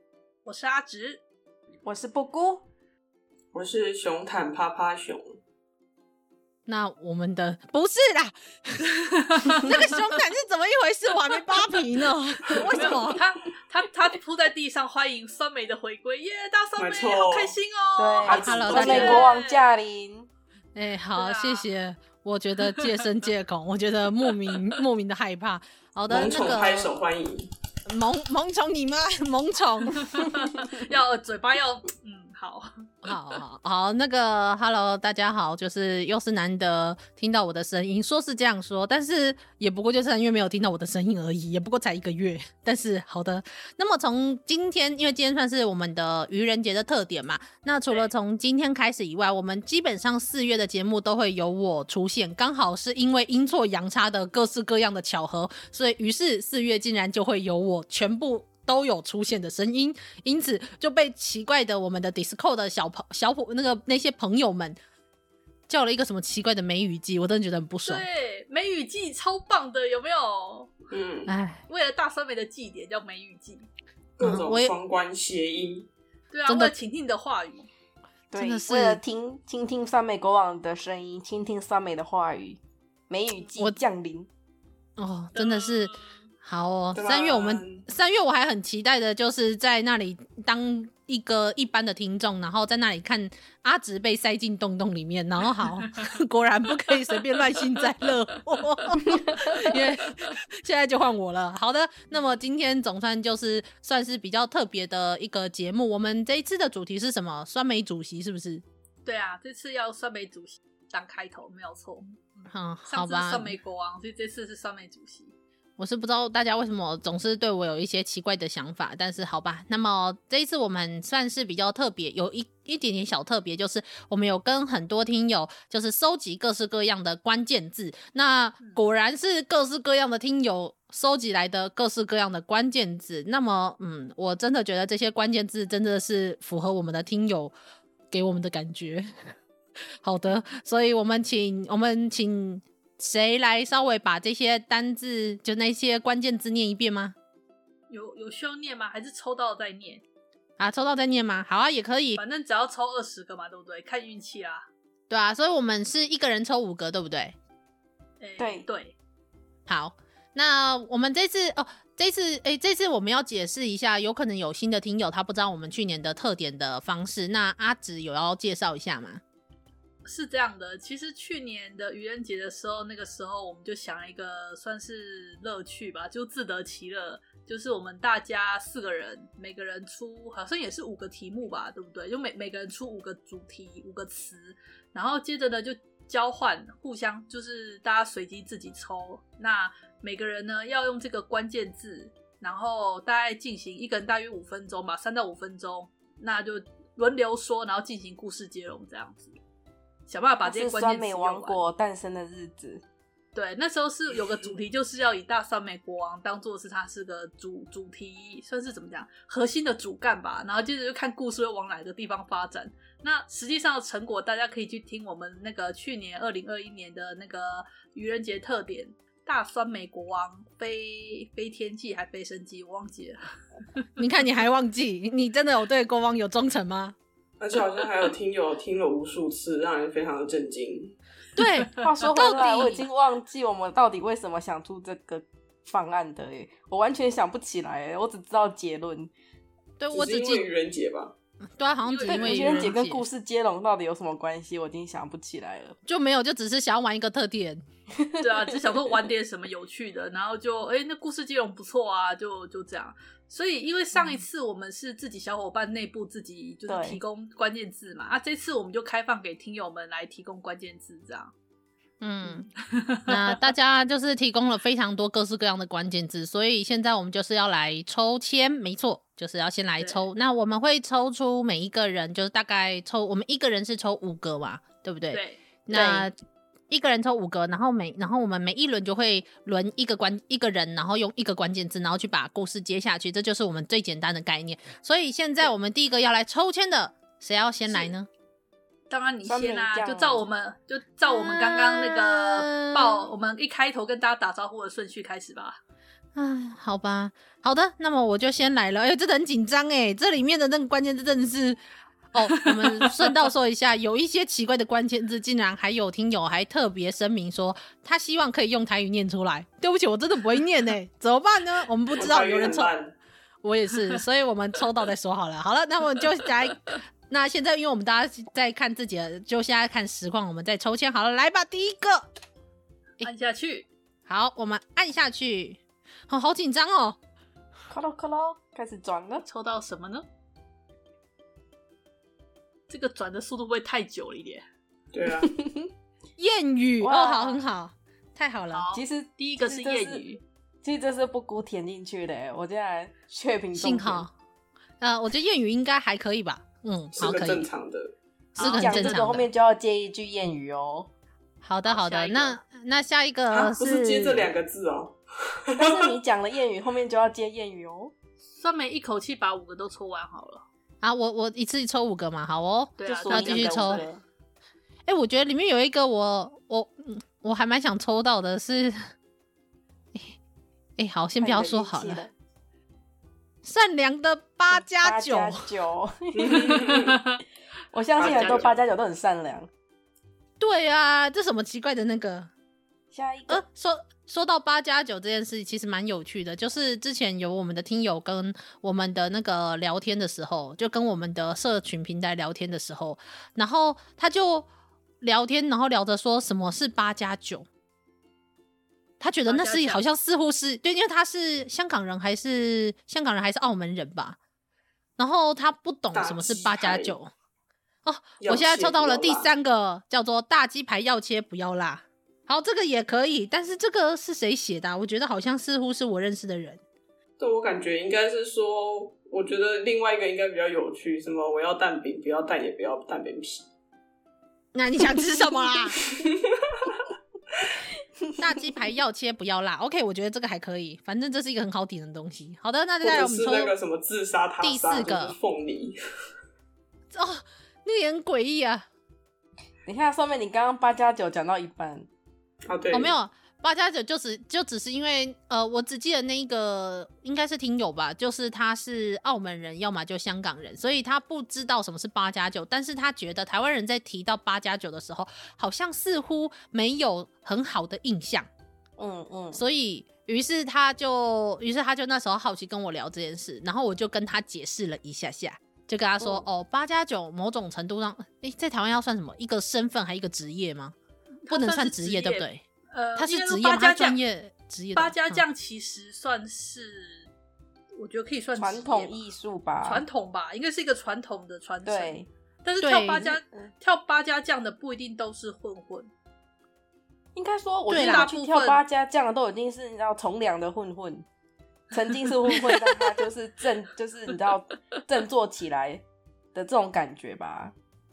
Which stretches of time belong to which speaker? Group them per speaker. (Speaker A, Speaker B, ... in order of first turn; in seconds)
Speaker A: 0.5-1.2, 9.0-9.9, 12.7-19.7, 21.2-21.7, 30.1-32.7, 67.9-70.8, 71.7-73.7, 76.3-77.7, 85.3-86.2, 109.0-115.3, 147.9-150.0, 152.2-154.7, 158.2-158.9, 170.1-199.4, 200.1-201.6, 203.3-223.2, 241.8-242.7, 248.2-261.3, 262.2-263.4, 269.8-270.1, 275.1-275.4, 288.9-295.6, 323.0-323.7, 329.2-330.1, 332.7-334.5, 338.5-340.2, 348.4-349.2, 351.7-352.4, 358.3-360.4, 362.8-363.9, 376.4-377.2, 399.3-399.9, 471.2-474.0, 474.7-477.1, 477.8-479.0, 479.6-485.9, 487.7-488.6
Speaker B: 1.8-2.7, 18.0-20.3, 78.3-84.3, 158.4-158.7, 200.4-202.8, 231.8-239.1, 242.1-245.8, 248.0-248.5, 256.7-257.0, 275.7-276.1, 289.2-290.2, 327.7-329.2, 335.2-335.7, 336.8-337.4, 338.7-340.1, 340.6-344.1, 348.4-350.9, 355.6-357.9, 362.9-364.0, 371.2-372.1, 374.5-376.6, 377.7-379.5, 382.9-383.4, 439.7-441.9, 458.8-459.4, 466.0-466.3, 478.4-479.9, 481.6-482.1, 487.1-491.1, 491.7-497.5
Speaker C: 3.5-5.2, 16.8-17.6, 18.2-19.3, 26.1-27.5, 70.9-71.3, 74.2-75.9, 86.9-87.8, 227.4-231.0, 239.9-241.1, 311.9-313.0, 334.9-335.3, 346.9-347.9, 353.3-355.8, 376.2-377.0, 378.0-378.6, 405.9-407.0, 408.2-409.3, 417.2-423.5, 426.0-426.7, 432.8-435.8, 442.5-442.9
Speaker D: 6.7-8.8, 9.5-13.2, 18.2-19.2, 20.8-26.9, 27.9-30.0, 33.0-64.8, 65.7-68.0, 71.3-71.6, 74.2-74.7, 76.5-76.8, 78.3-79.0, 85.0-108.6, 112.5-113.6, 115.8-137.6, 138.1-139.1, 140.0-147.2, 150.6-152.2, 155.1-157.4, 159.7-169.2, 224.0-227.0, 231.4-232.8, 239.8-240.5, 241.6-243.1, 245.9-247.6, 262.0-262.5, 263.1-276.1, 276.7-288.1, 291.1-293.1, 296.1-301.6, 302.1-312.7, 313.4-322.1, 324.1-327.0, 336.2-338.7, 343.6-344.1, 344.8-347.5, 348.4-349.3, 351.4-354.3, 360.8-363.8, 364.9-368.8, 370.8-372.1, 373.4-375.5, 380.4-382.3, 383.3-394.5, 395.0-397.5, 399.0-404.2, 405.0-407.1, 407.9-416.6, 424.5-425.8, 428.2-433.5, 434.4-435.2, 436.9-438.7, 442.7-458.3, 459.3-470.8, 471.3-472.4, 473.0-475.2, 482.6-483.1, 487.7-488.1